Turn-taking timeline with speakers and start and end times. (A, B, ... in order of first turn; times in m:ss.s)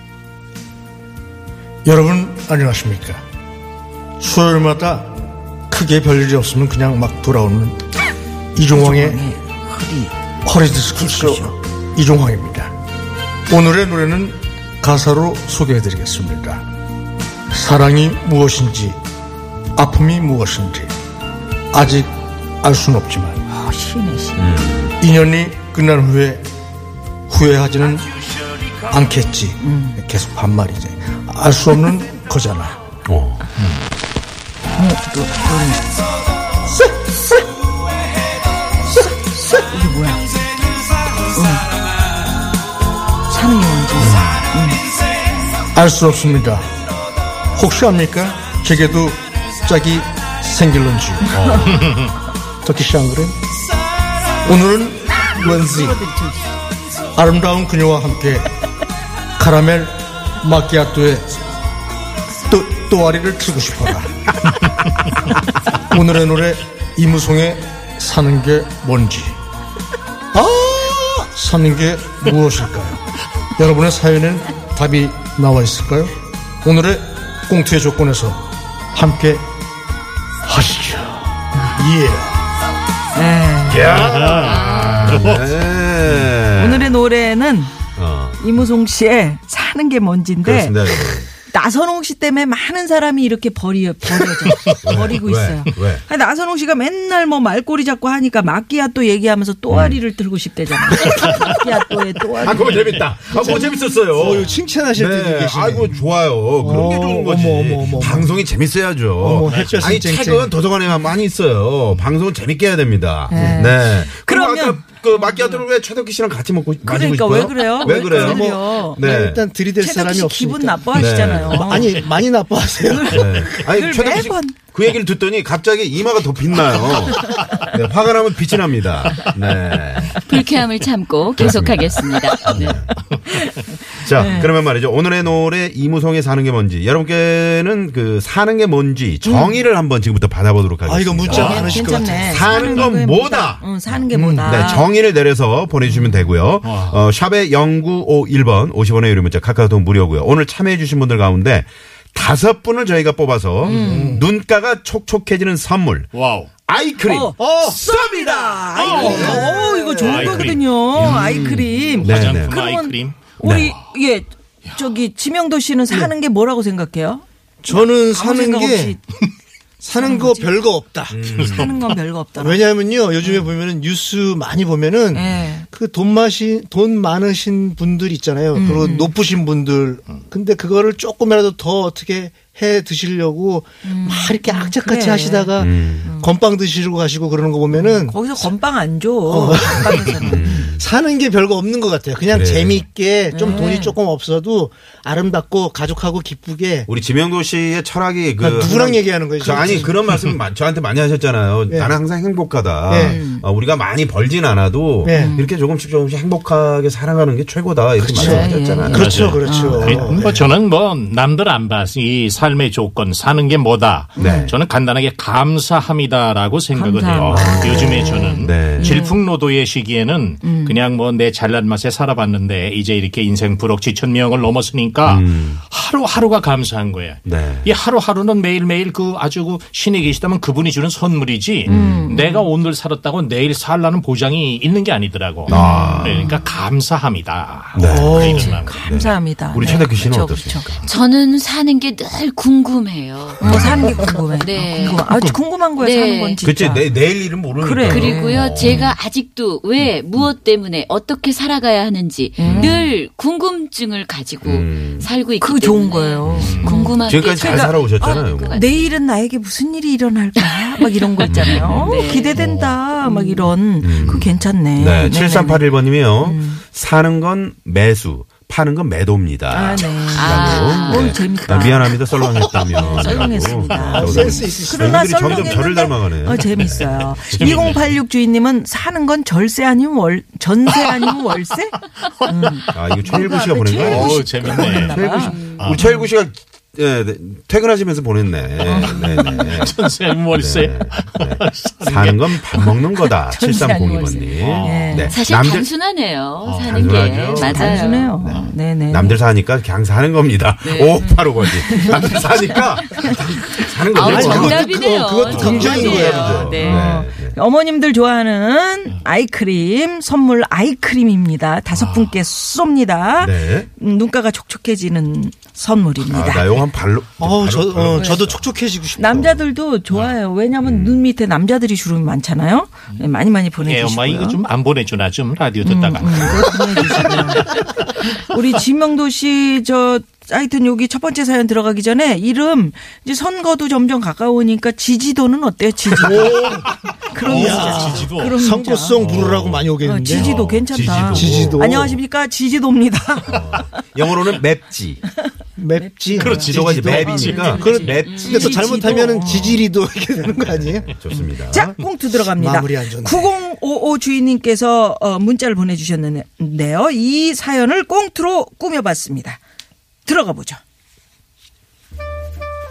0:01.8-0:03.2 A
0:04.2-0:05.1 A
0:05.7-0:07.8 A
0:08.6-0:09.2 A
0:08.7-0:10.1 B
0:10.4-0:12.7 A
0:10.8-0:11.5 B
0:13.5-0:16.6 A
0:17.5-0:19.0 A
0:19.8-0:20.9 A
0:21.7-0:23.4 A
0:23.5-0:24.6 B
0:24.4-0:24.9 C
0:25.0-0:26.4 A
0:27.3-0:28.1 A
0:28.9-0:32.8 A
0:29.6-0:30.0 B
0:33.1-0:33.4 C
0:34.8-0:35.8 B
0:38.9-0:40.3 B
0:41.3-0:41.7 B
0:43.3-0:44.8 B
0:44.0-0:44.4 C
0:45.7-0:46.7 A
0:47.5-0:51.3 A
0:51.3-0:51.9 C
0:51.4-0:51.7 B
0:51.7-0:52.0 D
0:52.6-0:53.4 A
0:54.4-0:56.0 A
0:55.2-0:56.5 B
0:57.1-0:58.5 A
0:59.4-1:01.3 A
1:02.5-1:04.1 A
1:05.9-1:09.4 A
1:10.3-1:13.0 A
1:13.6-1:16.1 A
1:16.6-1:18.4 A
1:18.9-1:19.4 A
1:20.4-1:22.4 A
1:23.1-1:23.9 B
1:23.7-1:27.0 C
1:24.0-1:25.5 D
1:26.6-1:27.8 B
1:28.0-1:28.4 C
1:28.4-1:44.0 B
1:30.4-1:31.3 C
1:34.8-1:36.0 C
1:39.7-1:40.0 C
1:42.4-1:59.4 C
1:43.4-1:46.0 E
1:46.6-1:48.3 E
1:46.7-1:47.0 B
1:49.2-1:50.5 E
1:49.5-1:49.8 D
1:53.3-1:55.5 B
1:53.4-1:53.7 E
1:56.8-1:59.0 B
1:57.8-2:03.4 E
1:59.8-2:02.1 B
2:00.9-2:01.8 C
2:02.9-2:04.6 B
2:03.1-2:10.2 C
2:07.1-2:07.6 B
2:10.2-2:12.8 F
2:11.4-2:12.8 C
2:12.6-2:14.5 B
2:13.9-2:23.8 C
2:19.2-2:19.6 B
2:20.8-2:22.4 E
2:21.3-2:24.9 B
2:24.1-2:24.5 E
2:24.4-2:36.1 C
2:25.8-2:26.3 B
2:26.6-2:27.0 D
2:33.6-2:34.2 B
2:33.7-2:34.2 E
2:36.1-2:36.5 D
2:36.7-2:39.2 C
2:37.0-2:49.0 B
2:37.4-2:37.8 E
2:38.7-2:43.2 D
2:38.8-2:40.3 E
2:41.0-2:42.6 C
2:43.4-2:43.8 C
2:47.6-2:49.0 E
2:49.8-2:51.2 E
2:49.9-2:50.6 B
2:51.1-2:51.8 C
2:51.3-2:52.0 D
2:51.4-2:52.6 B
2:52.3-3:08.5 E
2:55.1-2:55.7 B
2:58.5-2:59.1 B
3:03.8-3:06.3 B
3:05.6-3:06.1 C
3:07.7-3:10.7 B
3:09.2-3:16.9 E
3:10.2-3:10.8 C
3:12.3-3:12.8 C
3:13.3-3:14.0 B
3:16.8-3:30.0 C
3:18.4-3:19.9 E
3:19.5-3:19.9 B
3:21.7-3:22.0 E
3:22.9-3:23.2 E
3:23.0-3:23.4 B
3:25.0-3:25.3 E
3:25.0-3:25.5 B
3:28.0-3:30.5 E
3:28.1-3:29.9 B
3:28.9-3:58.9 D
3:34.2-3:34.5 C
3:34.2-3:34.6 B
3:36.7-3:39.2 B
3:37.1-3:39.0 C
3:40.4-3:40.8 B
3:45.0-3:45.6 C
3:47.2-3:47.7 C
3:51.6-3:52.1 C
3:51.6-3:52.5 B
3:55.5-3:56.4 C
3:55.5-3:56.4 B
3:57.7-4:00.8 C
3:57.9-3:58.4 E
3:58.2-4:00.8 B
4:00.8-4:03.5 F
4:03.4-4:06.9 B
4:03.4-4:04.0 C
4:04.4-4:05.1 F
4:05.8-4:06.4 F
4:06.4-4:08.9 C
4:07.5-4:08.9 B
4:07.8-4:19.0 F
4:12.4-4:12.9 B
4:12.4-4:12.8 C
4:14.4-4:15.1 C
4:15.4-4:26.6 B
4:16.2-4:18.6 C
4:16.4-4:16.7 D
4:21.2-4:22.4 F
4:21.3-4:22.8 C
4:23.0-4:23.5 F
4:23.8-4:37.8 C
4:29.5-4:32.0 B
4:30.1-4:31.4 F
4:32.5-4:46.1 B
4:32.9-4:33.9 F
4:33.9-4:35.7 E
4:37.3-4:37.8 D
4:42.0-4:42.7 D
4:42.7-4:49.8 C
4:43.8-4:45.0 D
4:45.2-4:45.6 F
4:48.6-4:49.6 B
4:48.7-4:52.4 D
4:50.3-4:55.7 C
4:52.6-4:55.2 B
4:54.4-4:55.1 D
4:55.1-4:58.1 F
4:56.4-4:56.8 D
4:56.7-5:04.6 C
4:57.3-4:59.2 B
4:57.4-4:58.5 D
5:00.6-5:01.0 F
5:01.0-5:03.1 B
5:03.9-5:06.9 F
5:04.0-5:04.5 D
5:04.0-5:06.6 E
5:05.2-5:07.4 C
5:05.3-5:06.3 D
5:06.4-5:16.5 B
5:11.7-5:12.1 D
5:13.2-5:13.7 C
5:16.1-5:18.5 C
5:17.2-5:19.3 E
5:17.9-5:18.2 B
5:19.0-5:24.4 B
5:19.0-5:19.4 C
5:20.6-5:21.0 C
5:23.6-5:27.4 D
5:25.6-5:36.6 B
5:36.0-5:36.7 E
5:36.1-5:38.4 D
5:37.1-5:39.0 B
5:37.2-5:40.4 E
5:39.0-5:39.4 D
5:39.1-5:41.6 C
5:39.8-5:43.8 B
5:41.1-5:42.0 E
5:43.2-5:45.0 C
5:45.6-5:50.9 E
5:45.8-5:49.6 B
5:46.2-5:48.3 D
5:46.3-5:48.4 C
5:48.1-5:48.6 F
5:49.1-5:49.6 C
5:50.4-5:51.8 C
5:51.1-5:59.4 B
5:52.2-5:53.3 E
6:00.0-6:00.6 B